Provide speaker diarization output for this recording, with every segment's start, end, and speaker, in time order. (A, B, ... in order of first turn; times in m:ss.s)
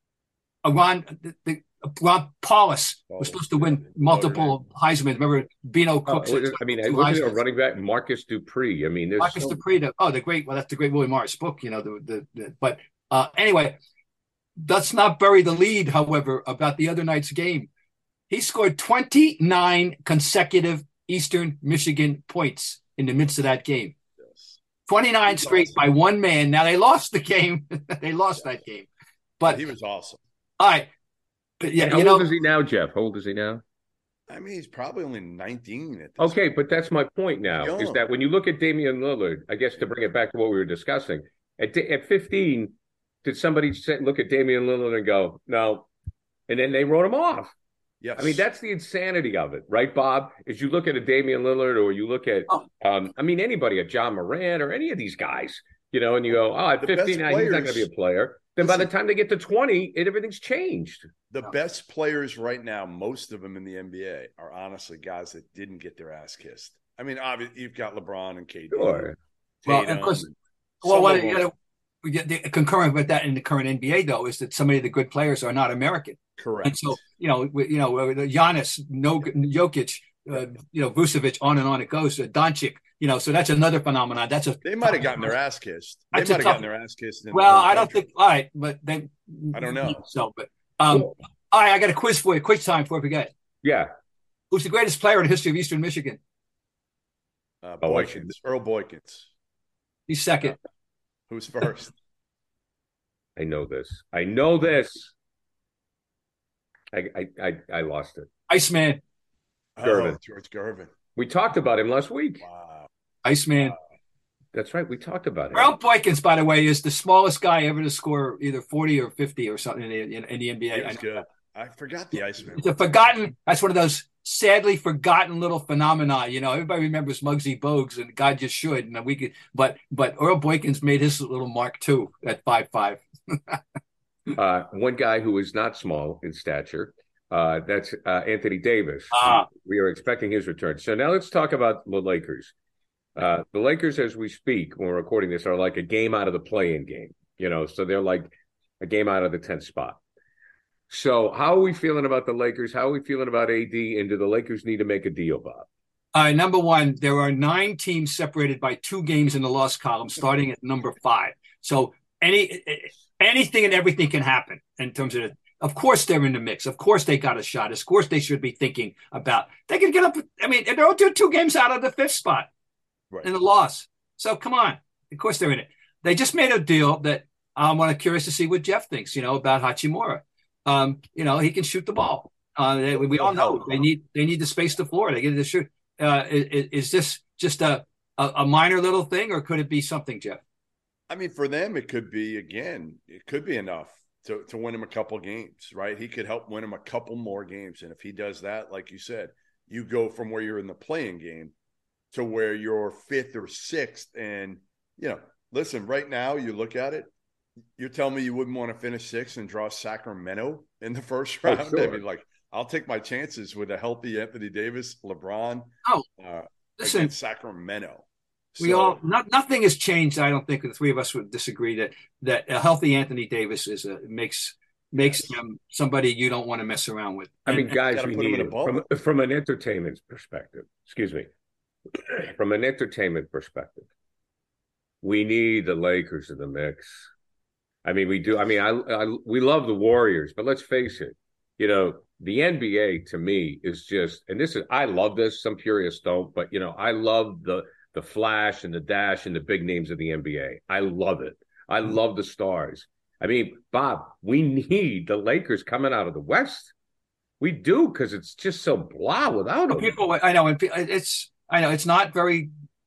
0:00.6-0:07.4 A
0:03.1-0:04.6 B
0:06.1-0:09.6 C
0:09.2-0:13.8 A
0:14.6-0:17.7 A
0:18.3-0:24.0 A
0:24.2-0:24.6 B
0:24.9-0:28.9 A
0:25.3-0:25.8 B
0:29.4-0:30.2 B
0:30.6-0:30.9 A
0:31.6-0:32.3 A
0:31.8-0:33.6 C
0:34.3-0:36.4 B
0:36.2-0:45.9 C
0:37.6-0:38.0 B
0:46.5-0:47.5 C
0:48.0-0:48.4 B
0:48.2-1:01.1 C
0:56.8-0:57.9 B
0:58.6-0:58.9 B
1:01.3-1:09.1 B
1:08.7-1:09.2 C
1:09.6-1:11.5 B
1:09.7-1:10.3 A
1:10.8-1:25.3 A
1:16.4-1:17.0 B
1:24.6-1:28.0 B
1:26.1-1:26.6 A
1:27.3-1:33.3 A
1:29.5-1:30.0 B
1:33.6-1:33.9 C
1:34.5-1:36.2 A
1:37.6-1:39.3 B
1:37.8-1:38.3 C
1:40.1-1:40.6 A
1:41.3-1:41.9 B
1:43.4-1:45.1 C
1:46.9-1:48.3 C
1:48.5-1:49.0 A
1:49.8-1:50.9 B
1:49.8-1:50.2 C
1:51.2-1:52.4 C
1:52.4-1:52.9 B
1:53.2-1:53.8 A
1:54.5-1:55.7 C
1:55.5-2:01.2 A
2:00.7-2:02.8 B
2:02.6-2:13.6 A
2:14.4-2:22.5 C
2:19.1-2:19.5 A
2:23.2-2:30.0 C
2:30.9-2:35.7 C
2:36.1-2:52.5 A
2:53.2-3:10.4 A
3:03.0-3:03.8 B
3:11.1-3:21.5 B
3:22.1-3:27.1 B
3:27.8-3:39.0 B
3:31.5-3:32.0 C
3:36.8-3:37.1 A
3:38.6-3:47.7 A
3:47.5-3:51.3 C
3:47.7-3:48.9 B
3:51.9-3:53.9 C
3:55.0-3:57.1 C
3:57.8-4:16.7 C
4:17.4-4:20.0 C
4:19.7-4:22.5 A